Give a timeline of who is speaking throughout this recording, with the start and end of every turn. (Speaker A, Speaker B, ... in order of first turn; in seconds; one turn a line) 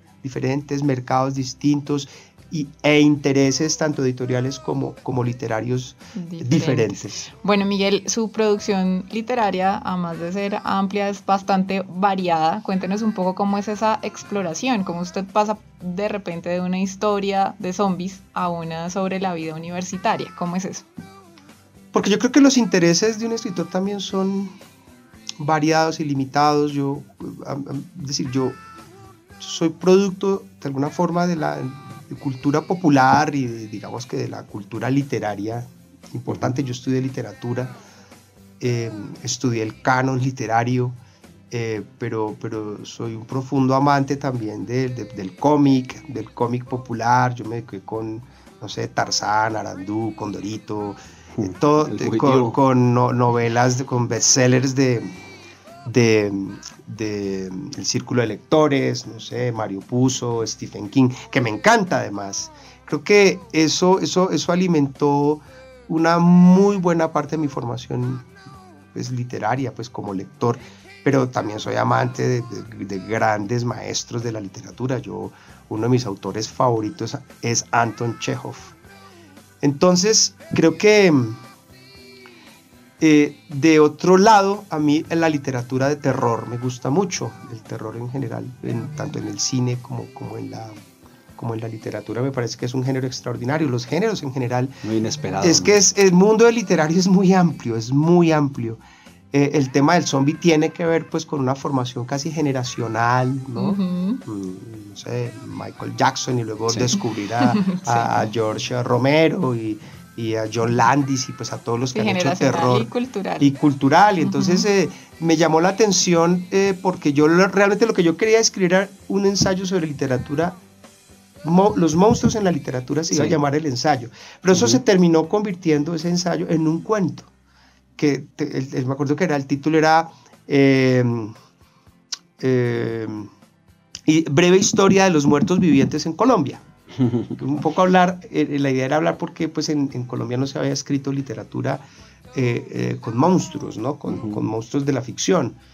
Speaker A: 0.2-7.3
Speaker B: 6.1-20.9
Speaker A: 21.9-24.5
Speaker A: 25.4-28.6
Speaker A: 29.4-37.7
Speaker A: 38.6-41.0
Speaker A: 41.5-55.2
Speaker C: 51.4-52.5
Speaker A: 55.8-68.3
Speaker A: 68.9-78.7
Speaker A: 79.6-81.4
Speaker A: 83.0-90.8
Speaker A: 91.4-94.8
Speaker C: 94.8-95.8
Speaker A: 95.4-120.6
Speaker B: 103.5-104.2
Speaker B: 107.4-108.1
Speaker B: 111.9-113.5
Speaker B: 114.2-114.6
Speaker A: 121.4-127.3
Speaker C: 123.1-123.4
Speaker C: 124.5-124.8
Speaker A: 128.0-131.3
Speaker A: 132.4-133.3
Speaker A: 134.1-136.6
Speaker A: 137.4-145.6
Speaker C: 144.1-144.4